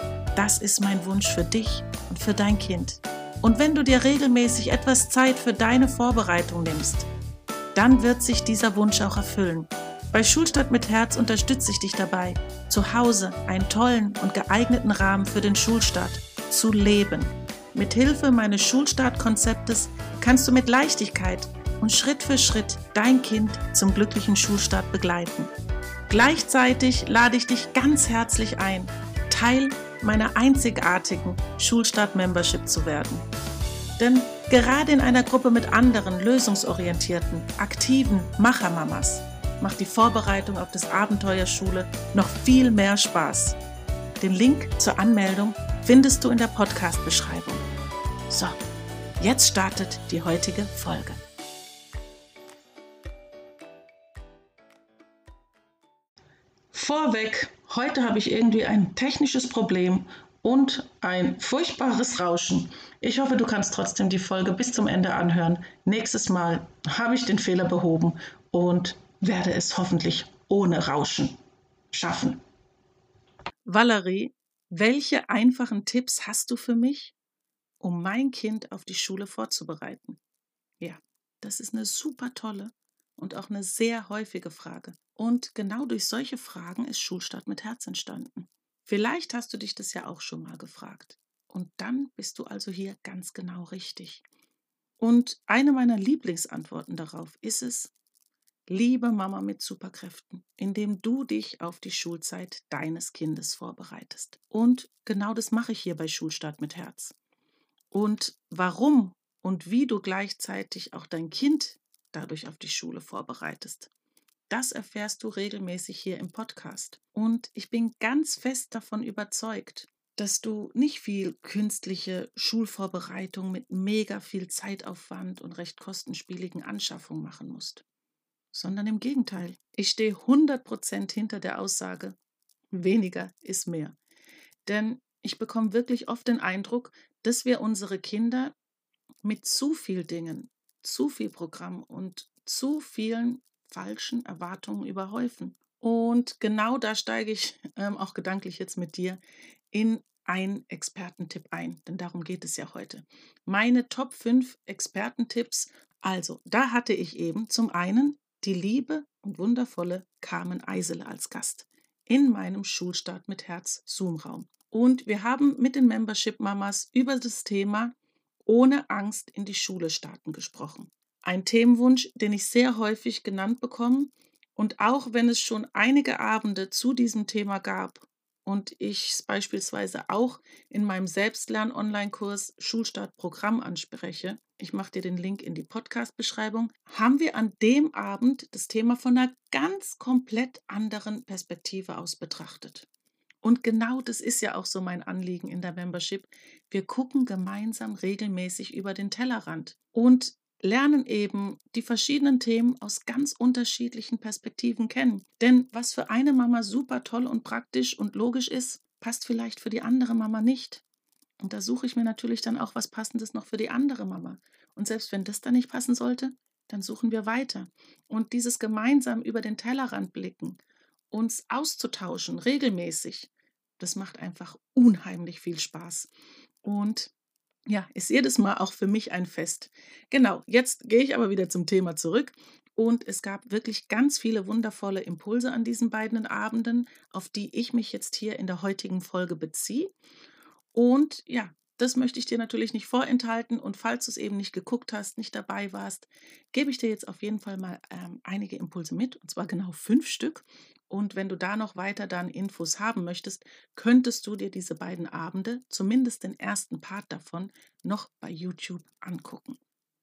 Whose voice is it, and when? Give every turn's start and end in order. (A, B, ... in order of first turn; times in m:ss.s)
0:00.4-0:07.1 A
0:07.7-0:25.5 A
0:26.1-0:33.2 A
0:34.0-0:43.6 A
0:44.2-0:47.6 A
0:48.3-0:48.6 A
0:49.2-0:51.2 A
0:56.7-1:11.3 A
1:11.9-1:12.4 A
1:13.7-1:17.1 A
1:17.8-1:20.2 A
1:20.8-1:34.2 A
1:35.0-1:37.9 A
1:38.7-1:47.1 A
1:47.9-1:53.9 A
1:54.5-2:07.8 A
2:08.5-2:12.2 A
2:12.7-2:14.0 A
2:14.6-2:18.5 A
2:19.2-2:29.2 A
2:29.7-2:47.9 A
2:48.4-3:12.9 A
3:13.4-3:30.8 A
3:31.4-3:40.6 A
3:41.1-3:46.1 A
3:46.6-3:47.1 A
3:47.7-3:59.9 A
4:00.7-4:19.6 A